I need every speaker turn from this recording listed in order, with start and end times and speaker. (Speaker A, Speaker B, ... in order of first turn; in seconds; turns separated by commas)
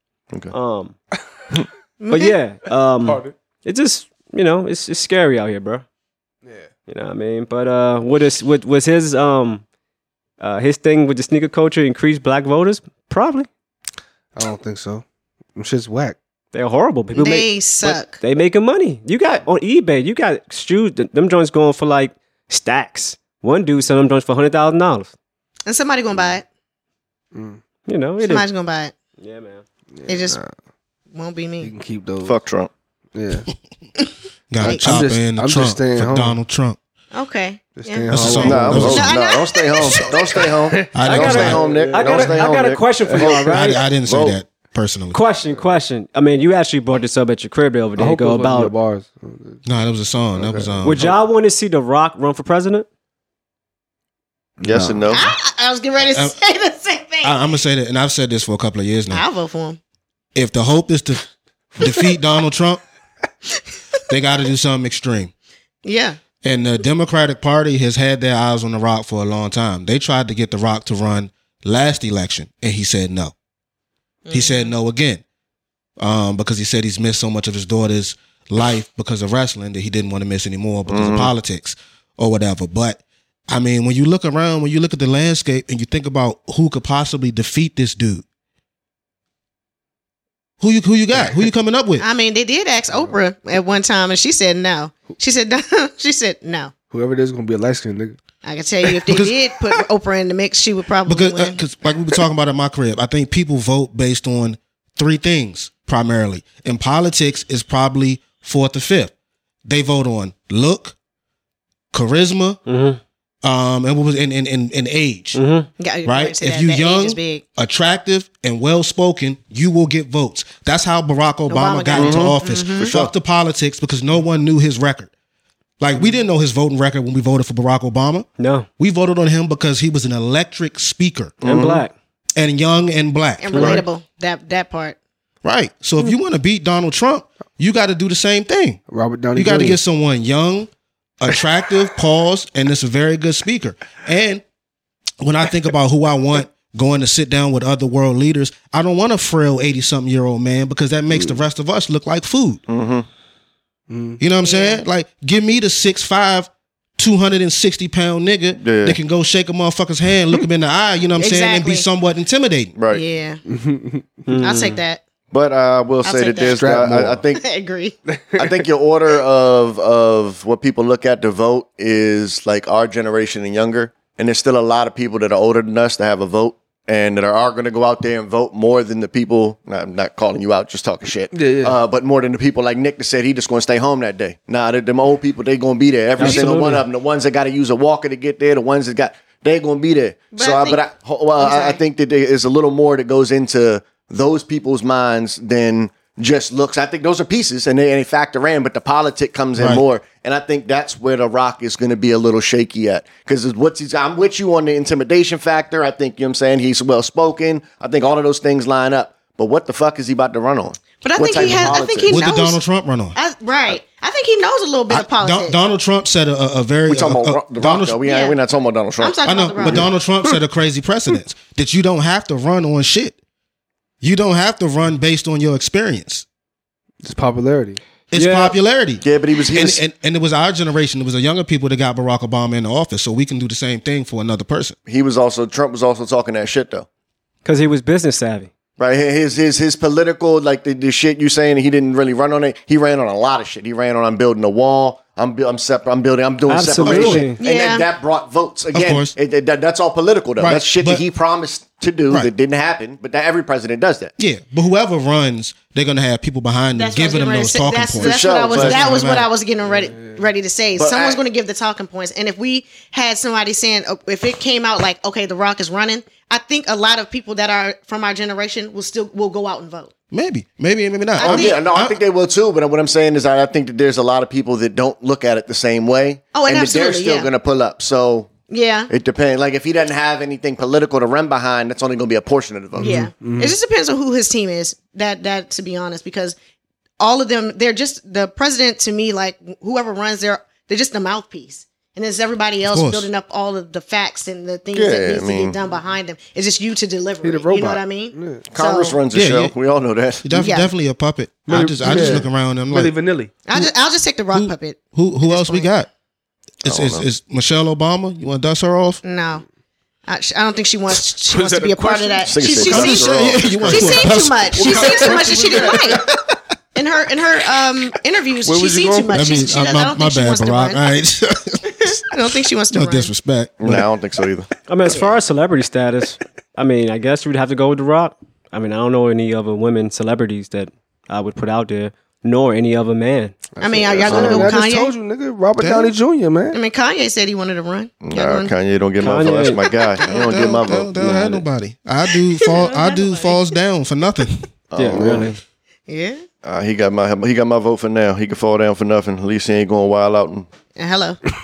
Speaker A: 0.5-1.0, Speaker B: 2.0-2.4, Speaker A: 2.1-5.8, Speaker C: 3.0-3.3, Speaker A: 6.9-9.6, Speaker A: 10.4-13.5, Speaker C: 14.4-15.1, Speaker C: 15.6-16.2, Speaker A: 16.5-25.1, Speaker B: 17.1-18.2, Speaker B: 25.7-26.5, Speaker C: 27.3-27.6, Speaker A: 27.9-28.5, Speaker B: 28.2-28.9, Speaker A: 29.2-29.6, Speaker C: 29.9-30.5, Speaker B: 30.1-30.4, Speaker B: 31.1-31.7, Speaker C: 31.6-32.4, Speaker D: 32.2-32.7, Speaker C: 33.1-33.5, Speaker E: 34.5-36.8, Speaker C: 34.6-36.4, Speaker B: 37.1-40.4, Speaker C: 37.8-39.1, Speaker E: 38.1-39.2, Speaker D: 38.4-44.4, Speaker C: 40.4-42.5, Speaker E: 40.9-41.6, Speaker A: 41.0-43.8, Speaker C: 43.1-43.4, Speaker E: 43.5-45.2, Speaker A: 45.1-48.7, Speaker C: 48.0-49.6, Speaker E: 49.6-51.1, Speaker C: 50.4-50.7, Speaker A: 50.8-52.9, Speaker C: 54.6-55.1, Speaker D: 54.6-55.3, Speaker B: 55.1-57.5, Speaker E: 57.2-59.2, Speaker B: 59.1-59.8, Speaker E: 60.4-62.8, Speaker E: 64.1-65.3, Speaker B: 65.8-66.2, Speaker E: 66.4-73.3, Speaker B: 74.3-74.7, Speaker E: 74.3-75.2, Speaker E: 76.0-88.2, Speaker D: 80.9-81.3, Speaker E: 90.6-92.0, Speaker B: 92.0-96.7, Speaker C: 96.9-98.2, Speaker B: 98.4-101.6, Speaker E: 99.1-99.3, Speaker E: 101.1-109.1, Speaker E: 109.7-111.0, Speaker E: 111.9-112.6, Speaker A: 112.7-113.0, Speaker E: 113.4-115.4, Speaker A: 115.3-115.7, Speaker B: 115.8-117.4, Speaker E: 116.0-125.1, Speaker B: 121.5-122.9, Speaker D: 121.9-123.1, Speaker E: 125.8-128.3, Speaker A: 128.4-128.7, Speaker E: 128.8-131.4, Speaker D: 131.4-131.8, Speaker A: 131.4-131.9, Speaker E: 132.4-133.8, Speaker B: 133.4-135.0, Speaker A: 133.5-133.8, Speaker E: 135.4-138.8, Speaker C: 138.9-139.8, Speaker E: 139.3-144.4, Speaker E: 145.2-152.6, Speaker C: 151.1-151.4, Speaker D: 152.7-153.1, Speaker C: 153.9-154.2, Speaker E: 154.2-162.7, Speaker B: 154.4-154.8, Speaker D: 158.6-159.0, Speaker B: 161.2-161.9, Speaker D: 162.8-163.0, Speaker B: 162.9-163.4, Speaker C: 163.5-164.1, Speaker A: 164.3-164.8, Speaker B: 164.4-165.0, Speaker D: 165.3-167.4, Speaker B: 166.0-166.7, Speaker C: 166.6-167.2, Speaker B: 167.4-168.0, Speaker C: 168.1-168.7, Speaker D: 168.4-212.2, Speaker C: 181.3-181.8, Speaker A: 186.2-186.8, Speaker B: 186.2-186.5, Speaker B: 190.3-190.8, Speaker B: 191.4-191.8, Speaker E: 199.6-199.8, Speaker B: 211.0-212.6, Speaker E: 211.4-213.2, Speaker B: 213.2-215.6, Speaker E: 214.9-218.0, Speaker D: 216.9-219.9, Speaker B: 218.1-218.4, Speaker B: 219.0-219.9, Speaker E: 219.2-223.2, Speaker E: 224.0-226.2, Speaker C: 227.0-227.8, Speaker E: 228.1-234.8, Speaker A: 228.1-228.6, Speaker D: 229.0-229.8, Speaker D: 234.9-236.9, Speaker A: 237.4-238.5, Speaker D: 238.8-254.1, Speaker A: 246.5-247.4, Speaker E: 246.8-247.3, Speaker B: 247.4-247.9, Speaker E: 248.7-249.2, Speaker E: 250.4-251.0, Speaker E: 254.2-259.3, Speaker B: 256.7-269.9, Speaker D: 258.0-258.8, Speaker C: 259.7-260.2, Speaker D: 260.8-261.2, Speaker E: 270.1-272.0, Speaker B: 271.2-271.6, Speaker D: 271.2-278.3, Speaker B: 276.3-277.3, Speaker B: 278.5-278.9, Speaker D: 278.9-283.1, Speaker C: 282.8-283.6, Speaker B: 282.8-286.4, Speaker B: 287.0-299.0, Speaker E: 292.7-293.1, Speaker D: 294.7-295.6, Speaker C: 297.2-298.5, Speaker D: 298.5-300.4, Speaker E: 299.1-299.6, Speaker E: 300.2-302.9, Speaker B: 300.4-300.7, Speaker C: 301.5-303.3, Speaker B: 301.9-302.2, Speaker B: 303.5-305.7, Speaker E: 304.3-305.9, Speaker E: 306.6-309.0, Speaker D: 306.7-307.1, Speaker B: 309.0-309.4, Speaker B: 310.1-316.1, Speaker C: 311.3-312.5, Speaker D: 312.3-314.1, Speaker E: 312.6-315.7, Speaker C: 314.5-316.1, Speaker B: 316.8-320.9, Speaker C: 318.4-319.4, Speaker E: 319.1-322.1, Speaker B: 321.7-323.1, Speaker E: 322.7-323.9, Speaker D: 323.6-324.5, Speaker A: 324.7-333.4, Speaker B: 324.9-325.2, Speaker C: 333.6-336.6, Speaker B: 333.6-334.9, Speaker D: 334.1-334.5, Speaker E: 335.6-335.9, Speaker B: 336.5-338.5, Speaker D: 338.0-341.3, Speaker A: 339.0-339.6, Speaker E: 340.0-344.5, Speaker B: 342.1-343.6, Speaker D: 344.7-345.3, Speaker A: 344.8-345.4, Speaker C: 344.9-345.3, Speaker B: 345.9-346.2, Speaker D: 346.4-350.5, Speaker B: 350.8-351.2